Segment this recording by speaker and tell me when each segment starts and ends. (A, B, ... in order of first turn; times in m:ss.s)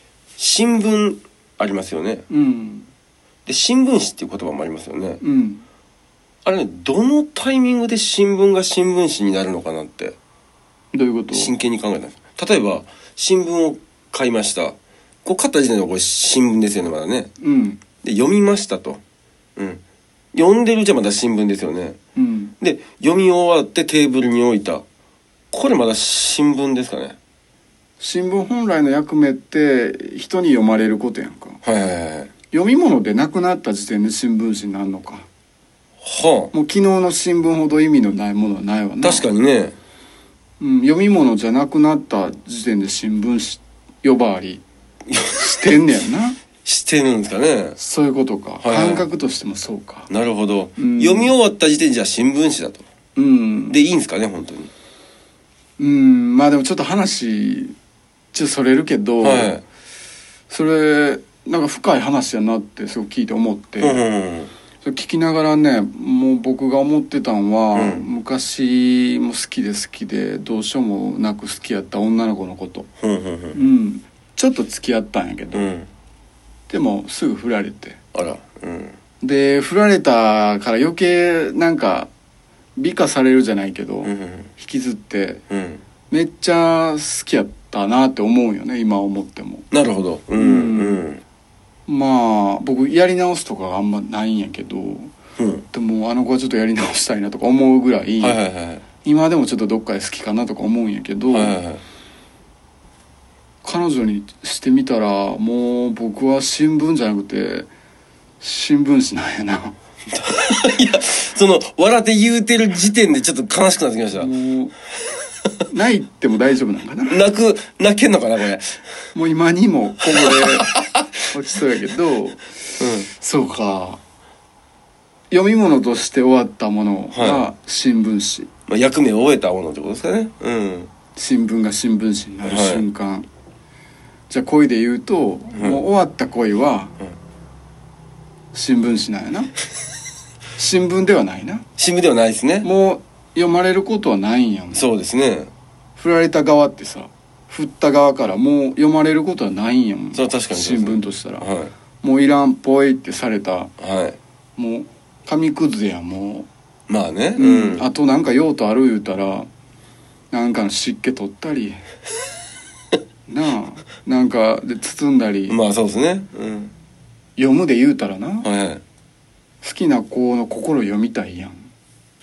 0:00.4-0:02.2 A
0:02.3-0:02.9 B
0:03.4-0:05.2 A
0:05.2-0:05.6 B
0:06.4-0:10.2 A
0:10.9-0:11.5 B
0:11.3-0:17.3 A
0:17.4-0:17.8 B
0:18.0-0:19.0 A
0:19.6-0:19.8 A
0:20.3-0:22.0 A
0:22.2-0:22.5 B
0:22.6-0:24.8 A
0:25.5-0:27.2 A
0:28.0-0:31.6 B
0:31.6-0:32.3 A
0:32.5-0:35.3 B
0:36.0-0:36.5 A
0:36.5-0:39.3 B
0:39.0-0:39.7 A
0:40.6-0:44.6 B
0:45.1-0:45.5 A
0:45.3-0:46.4 B
0:46.6-0:47.8 A
0:47.8-0:50.1 B
0:48.6-0:49.0 A
0:50.1-0:52.8 A
0:50.8-0:51.3 B
0:53.2-0:53.8 B
0:53.7-0:54.7 A
0:55.8-0:57.7 B
0:58.3-0:59.5 B
0:59.2-0:59.6 A
1:00.5-1:04.0 B
1:03.8-1:04.5 A
1:04.8-1:12.9 B
1:07.7-1:08.0 A
1:13.0-1:13.6 A
1:13.5-1:15.7 B
1:15.5-1:15.9 A
1:16.7-1:18.0 B
1:18.1-1:19.0 A
1:19.2-1:22.1 B
1:22.8-1:25.4 B
1:24.0-1:24.5 A
1:25.5-1:25.8 A
1:26.1-1:29.7 B
1:29.7-1:31.2 A
1:30.4-1:31.0 B
1:31.9-1:35.1 B
1:35.4-1:35.6 A
1:35.7-1:38.4 B
1:38.2-1:38.8 A
1:39.0-1:41.6 B
1:41.3-1:41.8 A
1:43.6-1:47.7 B
1:48.4-1:49.7 B
1:50.1-1:54.3 A
1:54.1-1:54.7 B
1:55.7-1:57.2 B
1:57.1-1:58.8 A
1:59.1-2:00.7 B
2:00.4-2:00.8 A
2:01.3-2:04.0 B
2:02.8-2:03.1 A
2:05.3-2:08.5 B
2:07.1-2:07.4 A
2:08.7-2:10.9 A
2:11.2-2:13.3 B
2:12.4-2:12.8 A
2:14.3-2:16.9 B
2:18.5-2:19.5 B
2:20.6-2:21.6 B
2:21.8-2:22.7 A
2:22.6-2:24.8 B
2:24.7-2:25.5 A
2:26.0-2:31.5 B
2:30.1-2:31.7 A
2:32.0-2:33.7 B
2:33.8-2:34.2 A
2:34.6-2:36.5 B
2:36.9-2:37.8 A
2:37.4-2:39.5 B
2:40.3-2:41.8 B
2:43.3-2:45.6 B
2:45.5-2:46.7 A
2:47.4-2:48.5 B
2:48.4-2:48.8 A
2:49.6-2:51.7 B